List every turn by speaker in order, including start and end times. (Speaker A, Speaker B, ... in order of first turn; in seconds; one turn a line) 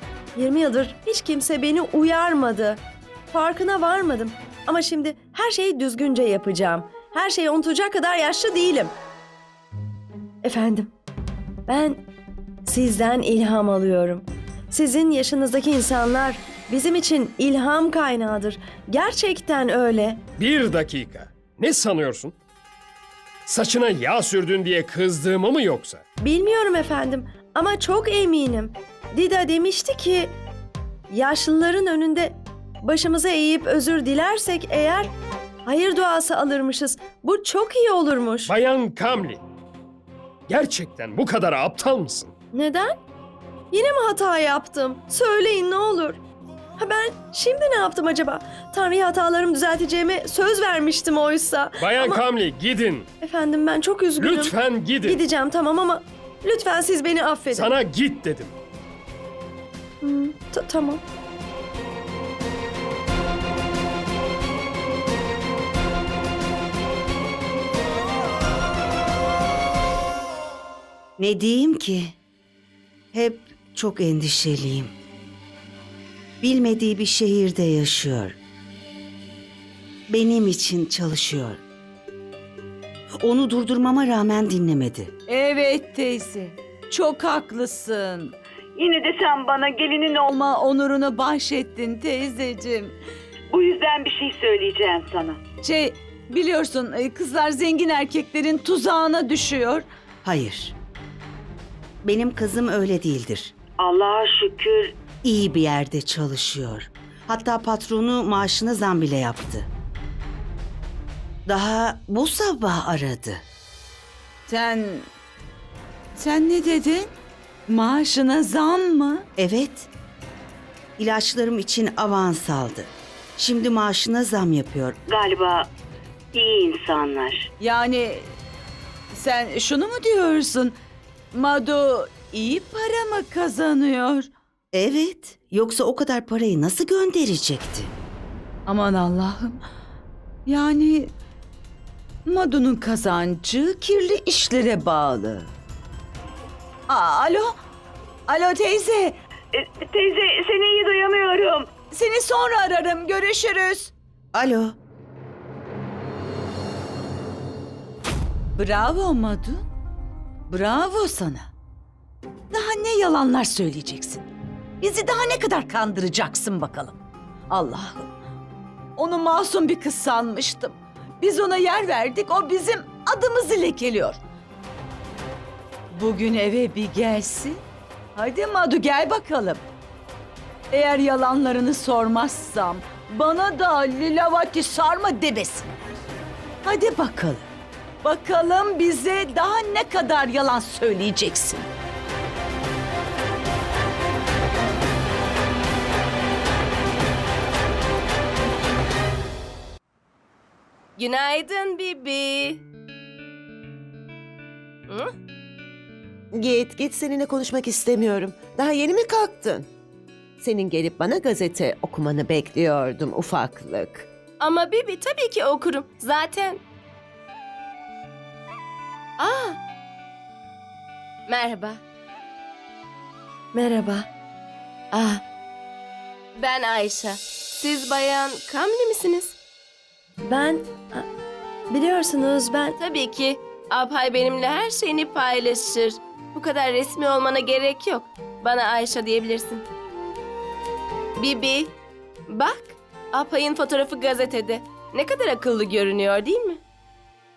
Speaker A: 0.4-8.9
Speaker A: 10.4-10.9
Speaker A: 11.7-12.1
Speaker A: 12.7-20.2
Speaker B: 20.4-22.4
Speaker B: 23.5-26.0
Speaker A: 26.2-30.3
Speaker A: 31.1-35.1
Speaker A: 35.7-38.5
Speaker B: 38.5-39.4
Speaker B: 40.5-42.3
Speaker A: 42.5-43.0
Speaker A: 43.7-46.2
Speaker A: 46.8-52.2
Speaker B: 51.8-53.1
Speaker A: 53.2-57.7
Speaker B: 54.2-55.2
Speaker B: 57.5-58.6
Speaker A: 60.0-61.0
Speaker C: 71.2-72.1
Speaker C: 73.1-74.9
Speaker C: 76.4-78.4
Speaker C: 80.1-81.6
Speaker C: 83.2-85.1
Speaker D: 85.3-88.4
Speaker E: 88.8-90.3
Speaker D: 90.3-92.9
Speaker E: 93.5-95.4
Speaker D: 95.6-99.8
Speaker C: 100.2-100.8
Speaker C: 102.0-103.5
Speaker E: 103.8-105.0
Speaker C: 105.2-109.7
Speaker C: 111.5-113.4
Speaker D: 114.5-115.1
Speaker D: 116.2-117.1
Speaker D: 117.7-119.3
Speaker C: 119.4-119.9
Speaker C: 121.0-125.0
Speaker E: 125.1-125.7
Speaker E: 126.3-127.5
Speaker D: 127.6-128.3
Speaker D: 129.1-130.8
Speaker D: 131.3-134.3
Speaker C: 134.7-137.9
Speaker D: 138.7-139.6
Speaker D: 140.5-141.1
Speaker D: 142.3-145.5
Speaker D: 146.9-147.6
Speaker D: 148.3-149.2
Speaker E: 149.5-151.7
Speaker D: 151.9-153.9
Speaker C: 154.3-154.8
Speaker D: 158.6-159.7
Speaker D: 160.5-161.5
Speaker D: 162.5-164.3
Speaker D: 164.8-167.0
Speaker D: 167.5-168.1
Speaker D: 169.0-174.2
Speaker D: 175.9-177.6
Speaker D: 178.2-179.6
Speaker D: 180.7-185.8
Speaker D: 186.7-187.5
Speaker D: 188.0-191.7
Speaker F: 201.0-202.6
Speaker F: 204.9-205.1
Speaker G: 206.3-209.7
Speaker G: 210.4-214.1
Speaker F: 214.4-216.6
Speaker F: 219.2-219.6
Speaker F: 221.3-221.8
Speaker A: 223.5-224.1
Speaker F: 224.9-225.2
Speaker F: 226.4-229.4
Speaker A: 230.2-231.1
Speaker A: 231.7-232.8
Speaker F: 232.8-239.7
Speaker F: 241.2-241.7
Speaker F: 242.3-246.6